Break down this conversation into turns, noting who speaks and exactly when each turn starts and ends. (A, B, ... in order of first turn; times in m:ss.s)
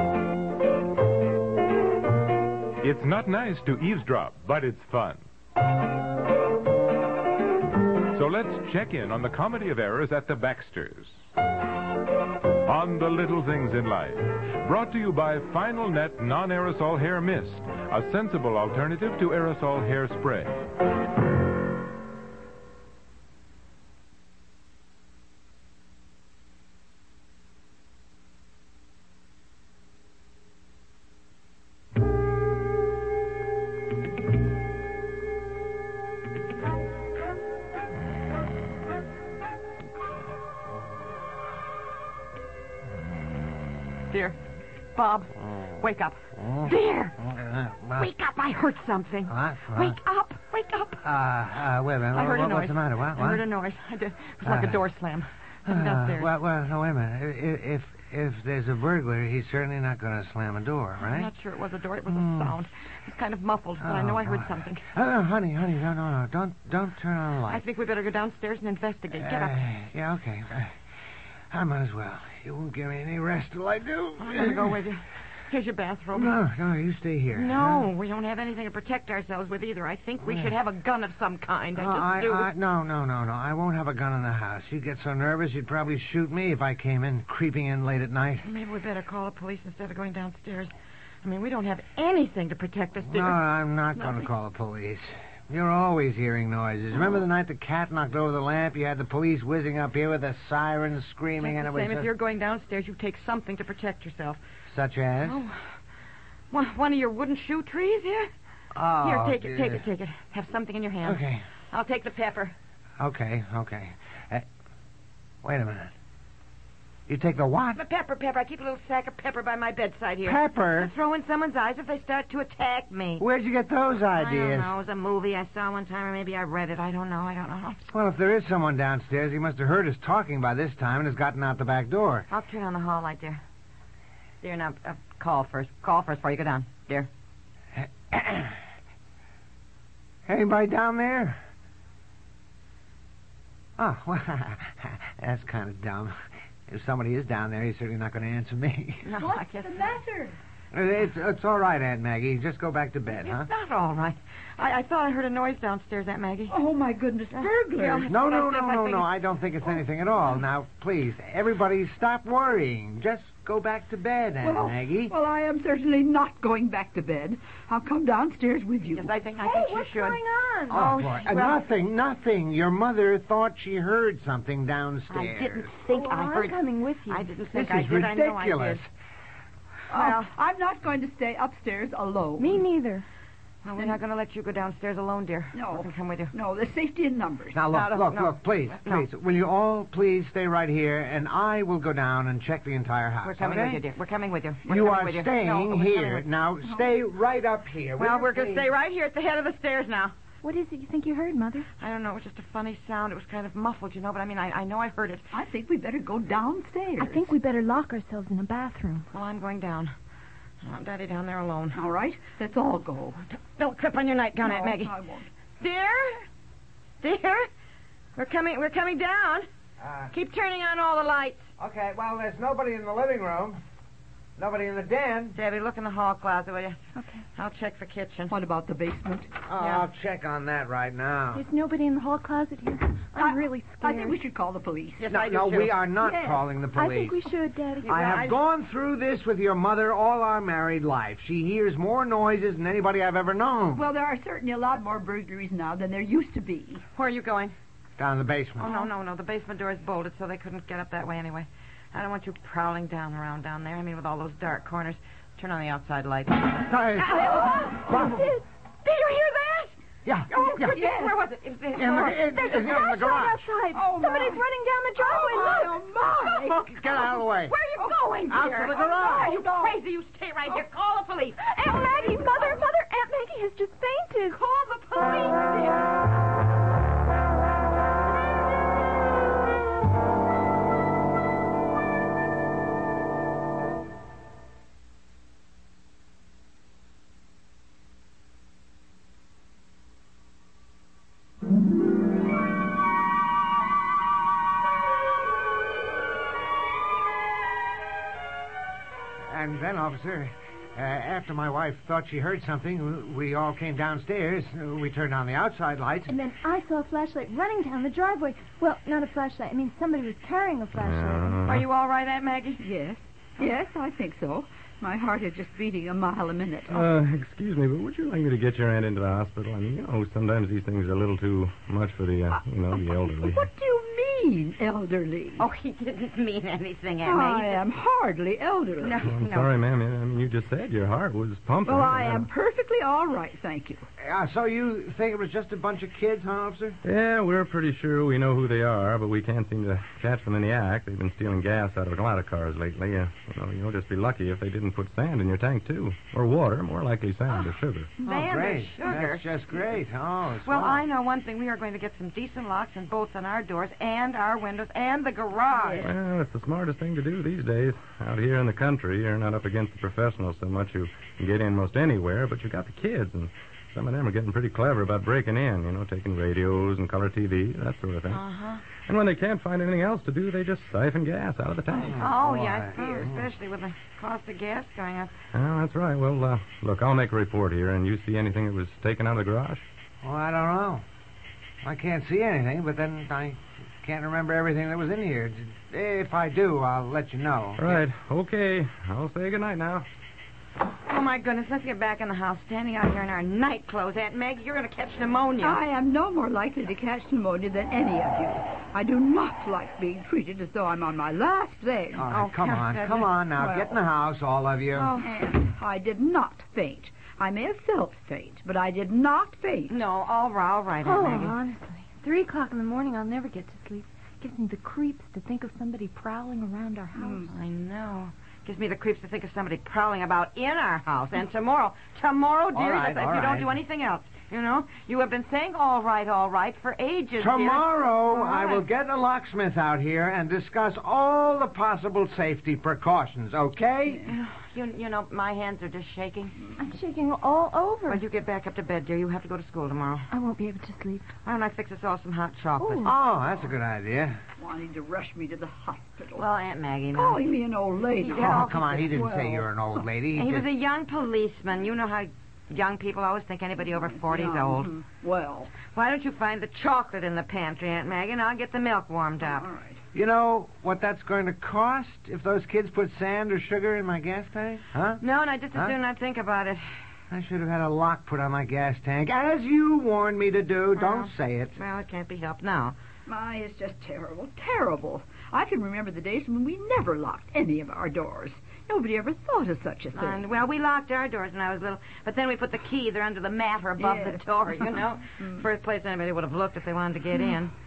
0:02.8-0:05.2 A
0:08.1-0:11.1 A
0:12.6-0:20.6 A
0:44.1-0:44.4 B
0:44.9-0:47.2 B
0:46.4-0:48.1 C
0:47.9-0:51.0 B
0:49.3-0:50.0 C
0:51.0-0:53.4 C
0:52.1-0:56.3 B
0:54.4-0:54.8 C
0:55.6-1:01.3 C
1:01.0-1:04.8 B
1:02.1-1:02.5 C
1:03.8-1:07.6 C
1:07.5-1:09.6 B
1:09.2-1:10.7 C
1:11.5-1:14.8 C
1:14.2-1:16.4 B
1:16.1-1:17.9 C
1:17.3-1:22.5 B
1:20.2-1:20.5 C
1:21.7-1:28.4 C
1:28.4-1:30.7 B
1:31.2-1:34.3 B
1:33.0-1:42.1 C
1:41.4-1:44.4 B
1:44.7-1:45.4 C
1:45.2-1:45.6 B
1:46.5-1:48.3 B
1:48.7-1:49.9 C
1:49.0-1:52.5 B
1:51.0-1:51.4 C
1:53.0-1:54.4 C
1:55.4-1:55.9 C
1:57.1-1:57.8 C
1:57.7-2:03.2 B
2:00.2-2:00.9 C
2:03.2-2:04.7 C
2:04.1-2:07.8 B
2:07.9-2:12.3 C
2:12.3-2:13.4 B
2:14.4-2:17.1 B
2:18.1-2:18.5 C
2:20.2-2:21.4 C
2:23.8-2:26.1 C
2:26.7-2:29.1 C
2:29.0-2:30.0 B
2:29.2-2:30.3 D
2:30.7-2:33.5 C
2:33.1-2:36.6 B
2:36.5-2:38.0 D
2:37.4-2:39.1 B
2:38.1-2:45.1 C
2:44.4-2:49.0 D
2:48.9-2:51.6 B
2:49.4-2:50.9 E
2:50.7-2:55.7 C
2:55.1-2:58.8 B
2:55.9-2:57.3 E
2:57.5-2:58.9 C
2:59.9-3:00.3 B
2:59.9-3:02.5 D
3:02.4-3:03.0 E
3:03.6-3:06.3 B
3:05.5-3:05.8 D
3:06.3-3:07.5 D
3:07.5-3:13.8 C
3:07.7-3:09.1 B
3:13.2-3:16.3 B
3:14.6-3:18.7 C
3:18.0-3:20.1 B
3:20.4-3:21.7 E
3:21.8-3:25.2 B
3:25.3-3:27.3 D
3:27.0-3:29.1 E
3:29.1-3:29.9 B
3:30.6-3:31.8 B
3:31.7-3:33.2 D
3:33.3-3:35.0 B
3:34.5-3:35.3 D
3:35.6-3:36.2 B
3:37.0-3:37.5 B
3:38.1-3:39.4 B
3:39.8-3:40.1 C
3:40.1-3:41.4 B
3:41.6-3:43.6 C
3:44.4-3:45.4 C
3:45.3-3:46.8 B
3:47.0-3:47.2 E
3:47.3-3:48.4 B
3:48.3-3:49.3 D
3:49.4-3:51.4 C
3:49.6-3:49.9 B
3:51.3-3:54.2 E
3:53.2-3:55.0 D
3:55.0-3:55.8 B
3:55.1-3:57.2 C
3:56.0-3:56.3 D
3:56.6-3:58.0 E
3:57.8-3:58.4 B
3:57.9-4:03.9 C
4:03.8-4:06.8 D
4:07.0-4:07.6 B
4:08.0-4:08.7 C
4:08.6-4:18.2 B
4:16.6-4:17.2 C
4:17.3-4:18.4 E
4:17.9-4:18.2 C
4:18.8-4:19.7 B
4:20.0-4:20.8 C
4:20.3-4:22.3 B
4:20.8-4:21.2 D
4:21.7-4:23.4 C
4:22.2-4:25.7 E
4:23.7-4:24.4 D
4:25.1-4:26.6 D
4:26.3-4:27.5 C
4:26.9-4:31.5 B
4:28.3-4:29.3 C
4:29.1-4:29.5 D
4:31.4-4:34.4 E
4:34.3-4:34.9 D
4:59.3-5:06.1 C
5:06.1-5:11.4 E
5:10.7-5:11.6 F
5:11.4-5:12.6 B
5:12.6-5:16.7 D
5:16.7-5:23.5 F
5:23.1-5:25.4 D
5:25.4-5:27.6 B
5:27.0-5:29.0 D
5:28.8-5:29.5 B
5:29.0-5:32.3 F
5:31.6-5:33.8 D
5:34.0-5:36.8 C
5:36.8-5:47.9 F
5:48.0-5:49.8 B
5:48.0-5:50.8 C
5:50.4-5:55.9 B
5:55.8-6:08.2 F
6:08.1-6:08.6 B
6:08.8-6:12.0 F
6:11.8-6:13.3 C
6:11.9-6:15.1 B
6:15.3-6:19.6 F
6:20.0-6:20.8 C
6:21.6-6:27.8 C
6:27.6-6:29.8 F
6:30.9-6:35.6 B
6:35.4-6:42.0 D
6:41.9-6:45.0 C
6:42.1-6:43.2 B
6:43.4-6:43.7 D
6:45.0-6:49.7 D
6:49.7-6:51.4 B
6:50.8-6:57.3 E
6:57.3-7:08.6 B
7:02.5-7:03.6 C
7:07.2-7:14.1 C
7:13.9-7:16.4 B
7:16.6-7:18.0 E
7:17.9-7:20.1 B
7:20.1-7:21.1 E
7:21.2-7:22.9 B
7:22.6-7:23.0 E
7:22.8-7:24.2 C
7:24.4-7:26.2 D
7:26.1-7:27.3 B
7:27.0-7:28.4 D
7:27.9-7:29.0 B
7:28.2-7:30.5 C
7:29.0-7:29.4 D
7:30.1-7:34.8 B
7:34.2-7:35.5 D
7:35.7-7:39.5 B
7:39.3-7:39.8 D
7:39.9-7:45.0 C
7:45.0-7:46.6 B
7:47.1-7:51.6 C
7:50.8-7:52.8 B
7:53.1-8:00.2 D
7:59.9-8:07.5 B
8:03.8-8:04.2 D